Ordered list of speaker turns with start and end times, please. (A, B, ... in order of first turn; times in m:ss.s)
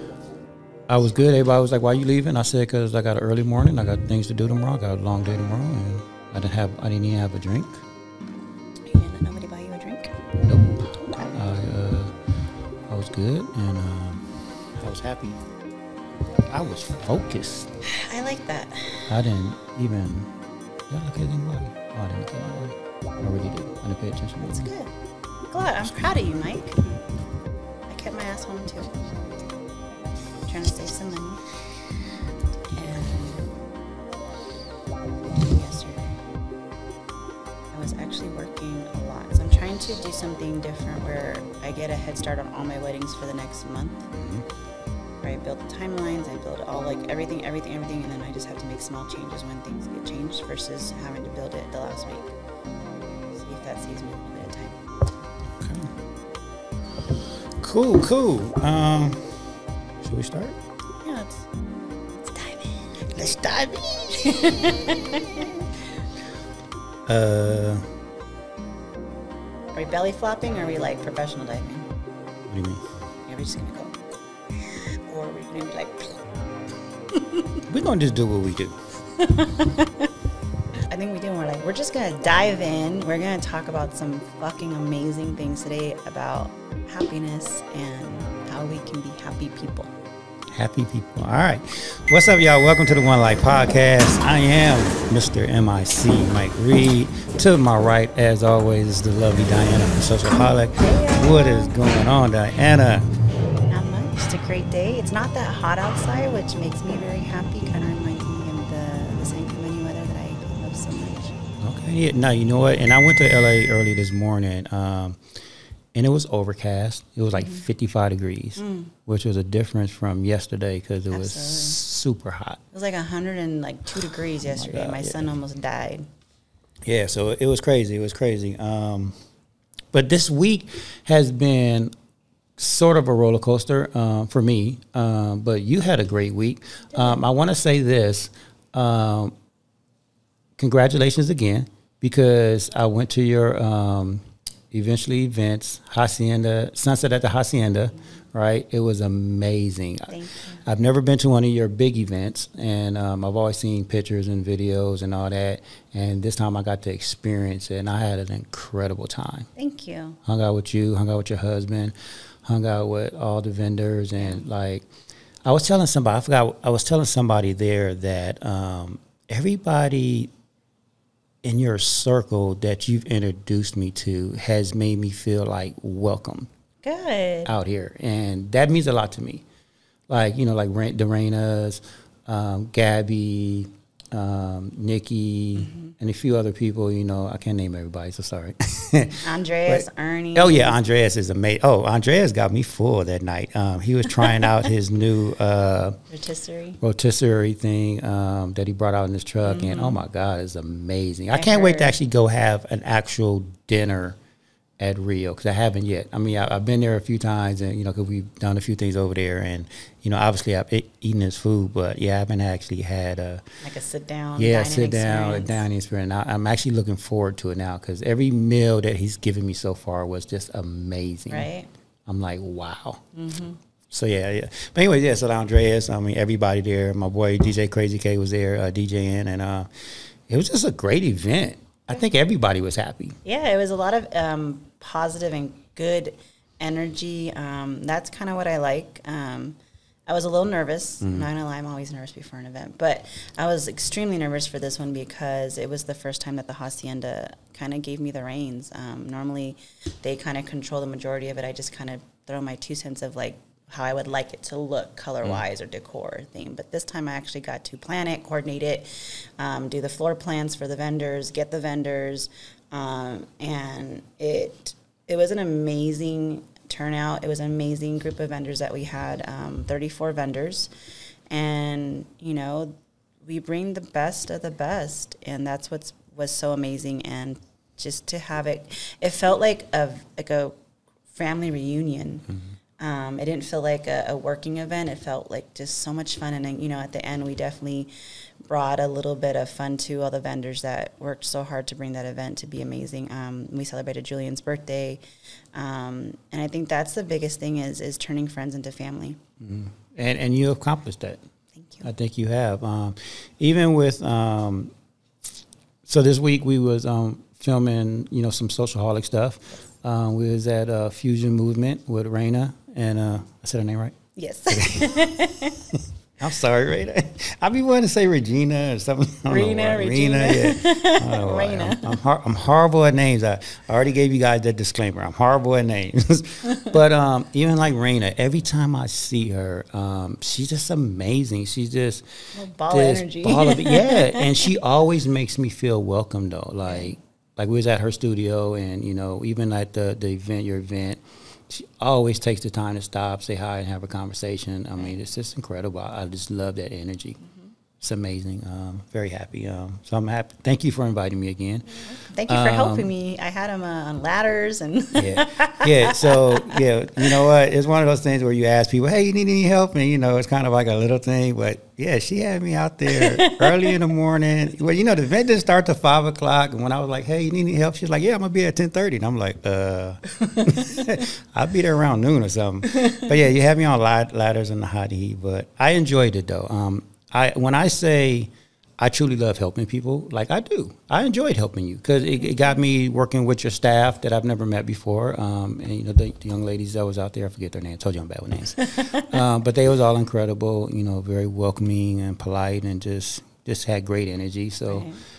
0:00.9-0:07.8 A
0:08.9-0:10.2 B
0:10.4-0:12.2 A
0:12.9-0:15.4 A
0:16.5-0:17.7 A
0:17.8-0:19.1 B
0:19.1-0:20.3 A
0:20.9-0:24.7 A
0:24.4-0:24.9 B
0:25.5-0:27.0 B
0:27.9-0:29.1 B
0:30.4-0:31.4 B
0:32.7-0:33.5 B
0:35.3-0:36.2 B
0:37.7-0:44.1 B
0:44.1-0:44.4 A
0:45.2-0:52.3 B
0:53.3-0:54.8 B
0:55.6-0:55.9 A
0:57.6-0:59.4 A
1:00.0-1:00.6 A
1:01.0-1:01.5 B
1:02.1-1:03.2 B
1:03.2-1:04.3 A
1:04.2-1:05.6 B
1:07.1-1:07.8 A
1:09.7-1:11.9 B
1:12.5-1:12.8 A
1:13.2-1:14.0 B
1:14.8-1:16.2 B
1:17.1-1:17.4 B
1:17.7-1:18.8 A
1:19.2-1:20.1 B
1:20.8-1:29.9 B
1:30.5-1:43.1 A
1:40.8-1:41.7 B
1:43.6-1:51.4 B
1:51.6-1:55.2 A
1:55.9-2:02.6 A
1:57.4-1:57.6 B
1:58.6-1:58.9 B
2:01.1-2:01.8 B
2:02.7-2:06.1 B
2:04.0-2:05.3 A
2:06.8-2:09.1 A
2:09.9-2:11.9 A
2:12.6-2:19.3 A
2:20.6-2:39.5 A
2:30.1-2:30.6 B
2:39.6-2:40.2 B
2:40.2-2:41.9 A
2:42.4-2:44.9 A
2:45.4-2:50.3 A
2:51.4-2:56.5 A
2:56.8-2:57.5 B
2:57.4-2:59.4 A
3:00.1-3:16.0 A
3:09.2-3:10.8 B
3:16.1-3:16.8 B
3:16.8-3:24.2 A
3:19.4-3:20.0 B
3:21.3-3:21.9 B
3:24.8-3:33.5 A
3:33.6-3:35.6 B
3:34.4-3:41.5 A
3:41.3-3:41.7 B
3:42.1-3:43.0 A
3:43.1-3:43.6 B
3:43.9-3:49.7 A
3:50.3-3:53.2 A
3:53.2-4:30.7 B
4:01.0-4:01.3 A
4:31.3-4:40.5 B
4:41.1-4:42.3 B
4:42.8-4:47.9 B
4:48.4-4:55.0 B
4:55.5-4:59.2 B
4:59.4-5:01.2 A
5:01.6-5:01.8 B
5:01.8-5:04.7 A
5:05.8-5:14.0 A
5:14.2-5:15.7 B
5:14.5-5:47.2 A
5:19.3-5:22.0 B
5:32.3-5:34.3 B
5:47.8-5:52.9 A
5:51.9-5:57.1 B
5:54.9-6:34.9 A
6:02.9-6:03.8 B
6:34.7-6:35.0 B